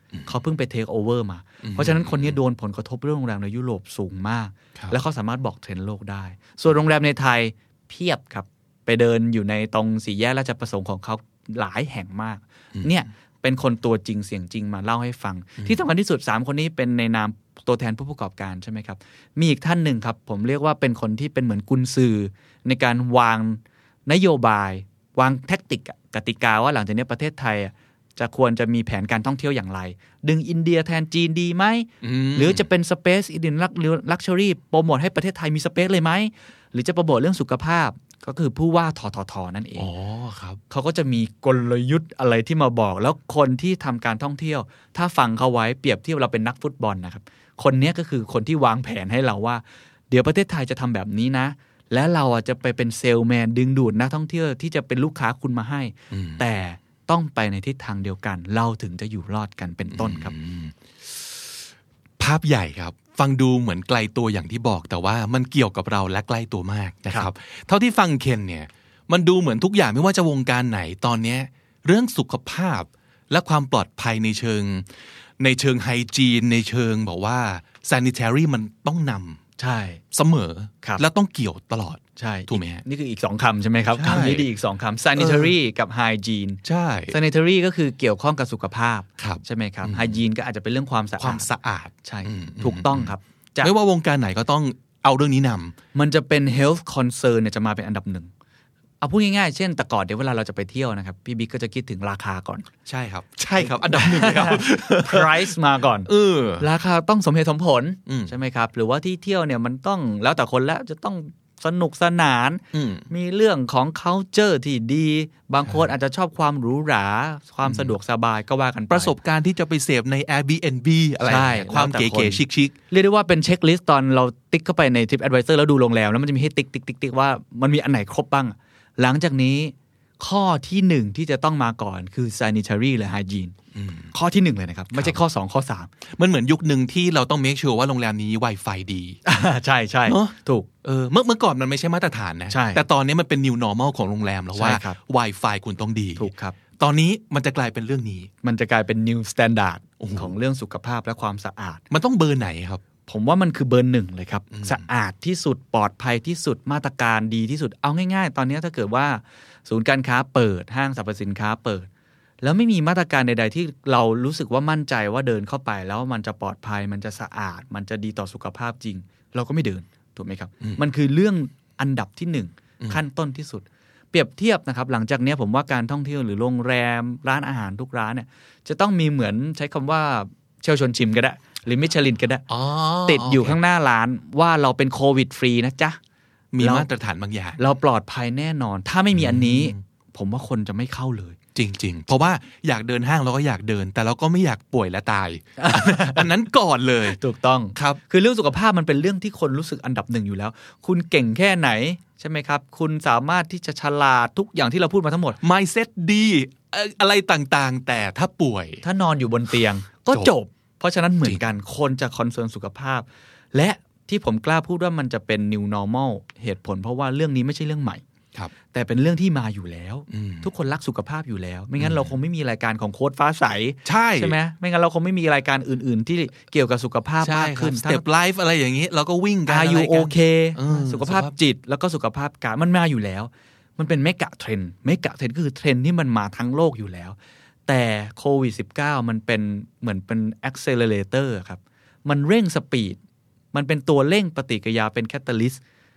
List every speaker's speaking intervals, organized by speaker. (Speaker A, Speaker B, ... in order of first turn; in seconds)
Speaker A: 0.3-39.9, 40.7-60.3, 79.6-80.0, 82.2-91.5, 92.0-93.7, 95.9-98.3, 99.0-102.7, 103.6-119.1, 121.2-133.6, 134.1-135.9, 139.2-140.7, 142.5-142.8, 144.6-145.0, 146.2-146.6, 148.4-151.8, 153.1-161.9, 162.4-182.4, 183.1-186.0, 186.6-186.9, 187.6-191.4, 195.6-196.3, 197.1-205.4, 208.8-218.0, 218.7-228.0, 229.5-237.2, 237.7-243.0, 243.5-245.6
Speaker B: 1.6-2.4, 32.0-32.7, 39.8-40.6, 56.1-56.4, 59.9-61.6, 62.2-79.4, 80.1-82.8, 84.0-84.5, 85.2-85.5, 86.7-87.2, 89.2-90.2, 91.2-95.8, 102.9-106.7, 108.1-108.3, 112.7-113.1, 117.7-117.9, 118.9-122.8, 133.7-134.1, 136.1-139.2, 140.1-148.3, 150.0-150.3, 151.9-152.8, 154.5-154.8, 182.5-183.6, 186.5-187.6, 189.1-189.8, 191.6-197.2, 205.4-208.8, 220.1-220.5, 221.8-222.1, 223.8-224.4, 227.2-231.4